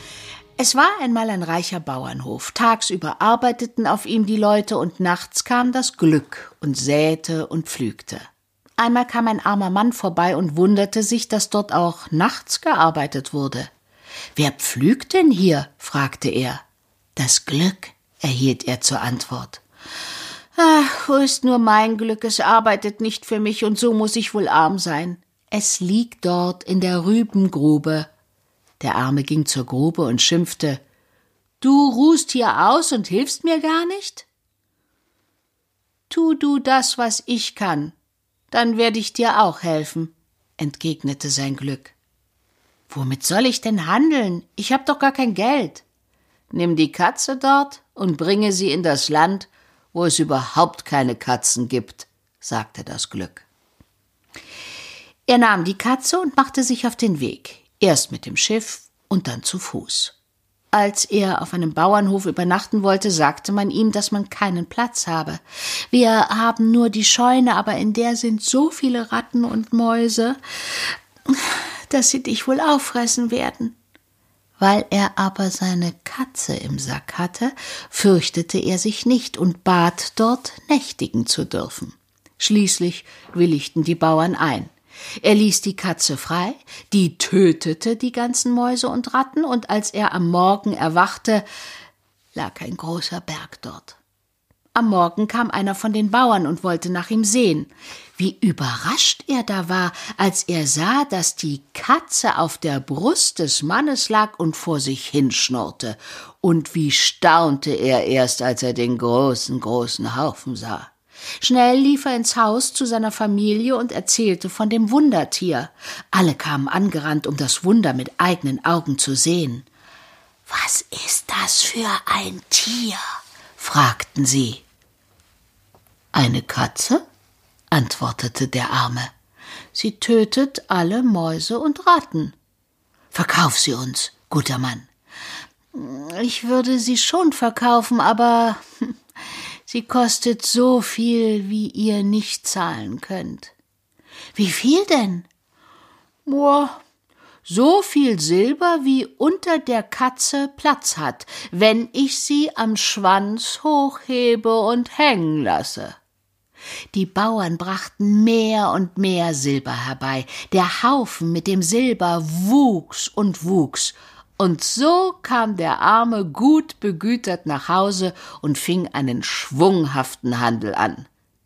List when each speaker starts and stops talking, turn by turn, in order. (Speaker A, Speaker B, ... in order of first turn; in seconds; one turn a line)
Speaker A: 0.6-13.7
Speaker A: 14.3-16.6
Speaker A: 17.2-19.6
Speaker A: 20.6-28.1
Speaker A: 28.8-30.8
Speaker A: 31.6-34.3
Speaker A: 36.1-38.0
Speaker A: 38.5-42.0
Speaker A: 42.9-45.8
Speaker A: 46.5-53.5
Speaker A: 55.3-60.1
Speaker A: 60.7-73.8
Speaker A: 74.6-91.5
Speaker A: 92.3-94.0
Speaker A: 94.7-119.7
Speaker A: 120.5-123.0
Speaker A: 123.6-124.7
Speaker A: 126.1-127.0
Speaker A: 127.7-129.1
Speaker A: 129.7-132.3
Speaker A: 133.1-134.9
Speaker A: 135.7-138.9
Speaker A: 139.7-143.5
Speaker A: 144.3-145.3
Speaker A: 146.2-146.8
Speaker A: 147.4-156.0
Speaker A: 156.9-171.1